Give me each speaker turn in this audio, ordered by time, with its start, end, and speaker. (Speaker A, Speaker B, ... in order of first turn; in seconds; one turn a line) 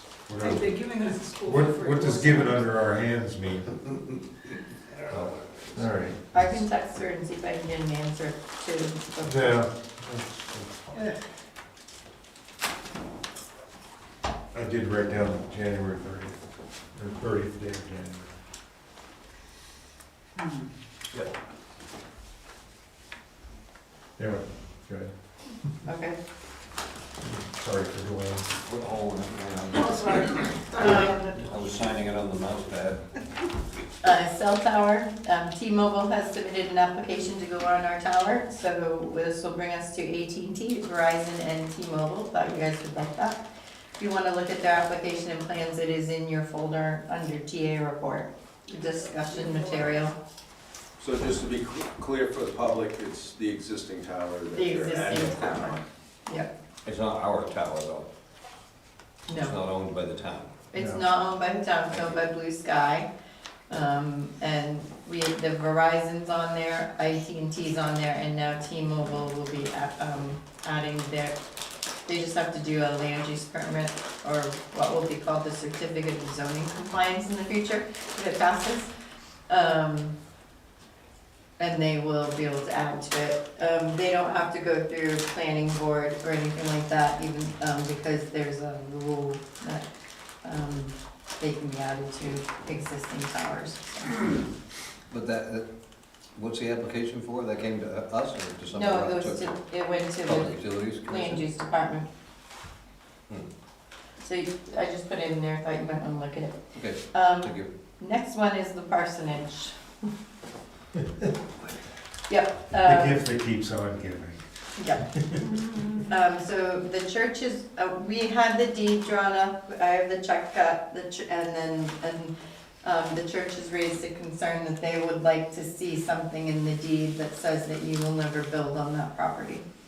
Speaker A: 0.3-0.7
Speaker B: 0.4-2.6
Speaker A: 1.4-3.8
Speaker A: 5.1-6.6
Speaker C: 6.3-9.6
Speaker A: 9.2-11.1
Speaker A: 14.5-16.4
Speaker A: 16.9-18.3
Speaker A: 24.2-25.1
Speaker C: 25.9-26.2
Speaker A: 27.2-28.5
Speaker D: 28.6-33.0
Speaker B: 29.8-31.4
Speaker C: 34.0-43.4
Speaker C: 44.0-50.2
Speaker B: 49.1-49.7
Speaker E: 51.0-55.8
Speaker C: 54.5-56.5
Speaker D: 56.9-58.1
Speaker C: 59.3-59.6
Speaker D: 59.3-60.5
Speaker C: 60.7-63.1
Speaker A: 60.7-61.0
Speaker D: 61.9-62.2
Speaker C: 63.7-71.4
Speaker C: 72.1-78.9
Speaker C: 79.5-80.2
Speaker C: 81.6-89.8
Speaker C: 90.4-94.3
Speaker D: 95.1-95.7
Speaker D: 96.3-99.6
Speaker C: 98.7-102.1
Speaker D: 100.2-101.4
Speaker C: 104.2-106.6
Speaker D: 106.7-107.7
Speaker C: 107.1-109.8
Speaker A: 111.0-111.3
Speaker C: 112.3-113.2
Speaker A: 112.8-114.4
Speaker C: 114.8-115.1
Speaker A: 115.0-115.5
Speaker C: 115.9-129.6